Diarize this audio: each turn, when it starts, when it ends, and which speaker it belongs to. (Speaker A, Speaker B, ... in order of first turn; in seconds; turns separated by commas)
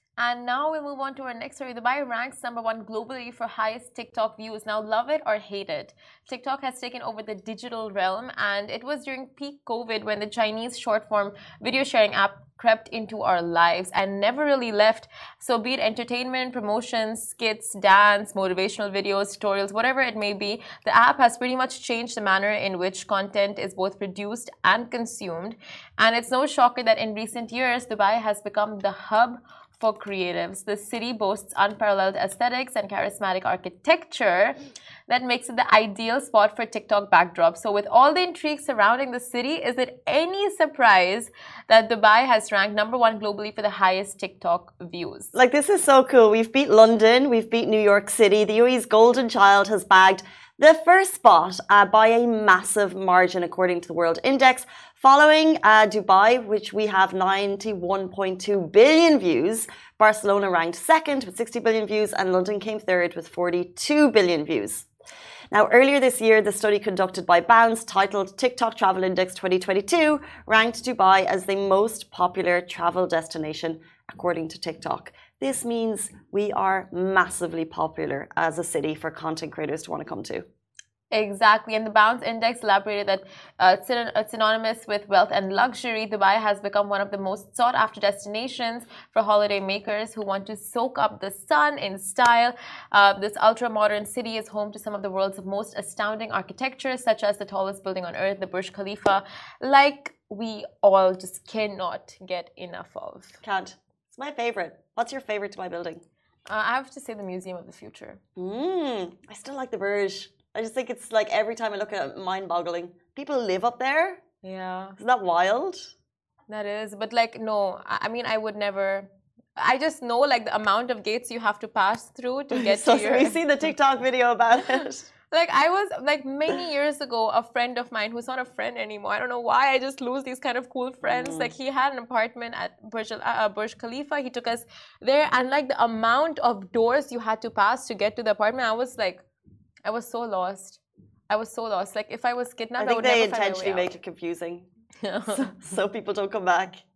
Speaker A: 0.2-45.3, Speaker B: 45.3-64.9, Speaker B: 65.5-80.4, Speaker A: 81.1-103.4, Speaker B: 103.4-106.0, Speaker A: 106.5-108.2, Speaker B: 108.3-114.2, Speaker A: 114.4-115.0, Speaker B: 115.0-115.9, Speaker A: 116.5-123.4, Speaker B: 122.5-125.1, Speaker A: 125.3-139.2, Speaker B: 131.0-131.5, Speaker A: 139.8-143.9, Speaker B: 142.8-144.7, Speaker A: 145.0-145.5, Speaker B: 145.3-146.8